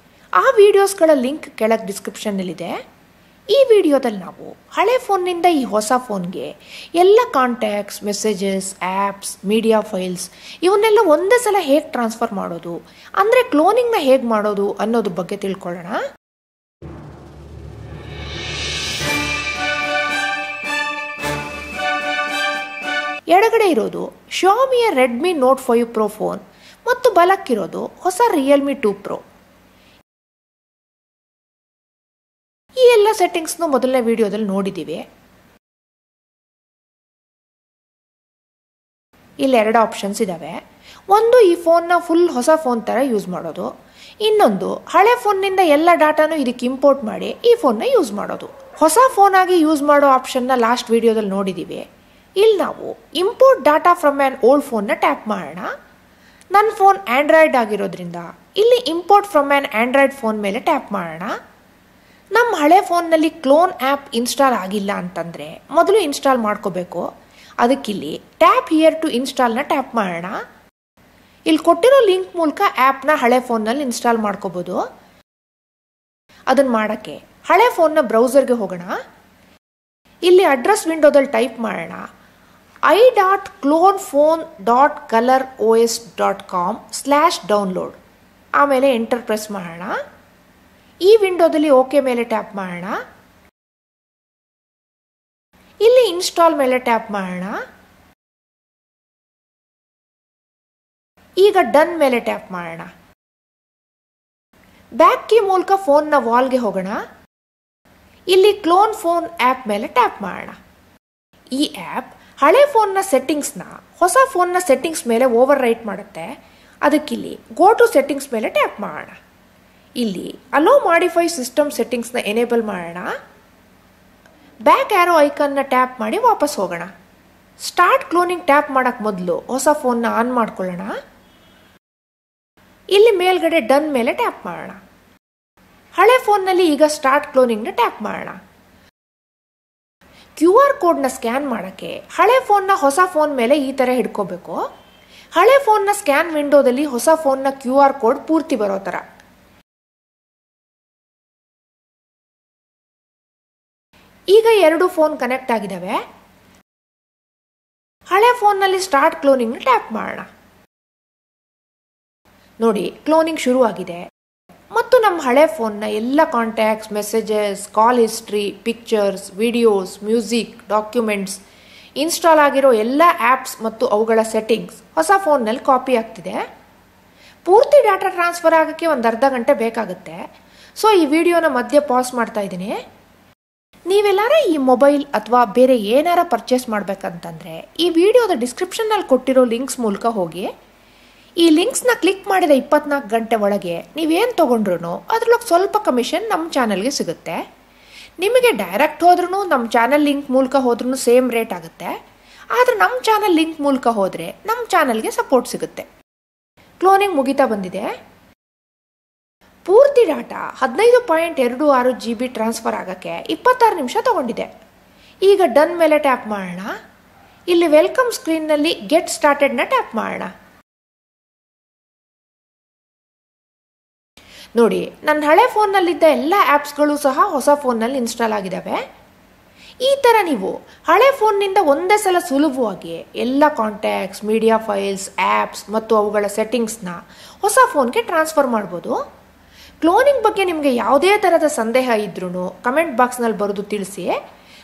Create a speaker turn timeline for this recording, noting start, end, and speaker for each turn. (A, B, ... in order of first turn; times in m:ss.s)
0:00.4-0:02.8 A
0:03.5-0:16.0 A
0:23.3-0:29.2 A
0:32.8-0:35.0 A
0:39.4-0:40.6 A
0:41.1-0:43.7 A
0:44.2-0:51.8 A
0:52.4-0:55.7 A
0:56.5-1:01.3 A
1:02.3-1:07.0 A
1:07.6-1:10.4 A
1:11.5-1:14.8 A
1:16.5-1:18.9 A
1:20.3-1:22.0 A
1:22.9-1:28.0 A
1:28.6-1:30.0 A
1:31.1-1:33.0 A
1:35.8-1:37.6 A
1:41.4-1:42.9 A
1:45.0-1:47.0 A
1:48.3-1:50.6 A
1:51.6-1:56.3 A
1:56.9-1:59.2 A
2:00.0-2:03.1 A
2:04.7-2:06.9 A
2:07.6-2:10.9 A
2:12.9-2:14.8 A
2:16.0-2:18.4 A
2:20.4-2:24.6 A
2:25.4-2:29.0 A
2:34.3-2:36.0 A
2:38.1-2:40.3 A
2:42.6-2:44.0 A
2:44.7-2:51.4 A
2:52.0-2:56.4 A
2:57.5-3:00.2 A
3:00.8-3:02.8 A
3:03.9-3:10.5 A
3:11.4-3:17.4 A
3:18.2-3:21.9 A
3:22.6-3:25.9 A
3:26.8-3:27.9 A
3:29.7-3:34.5 A
3:35.3-3:36.7 A
3:37.5-3:40.3 A
3:44.6-3:48.8 A
3:49.8-3:59.0 A
3:59.8-4:04.1 A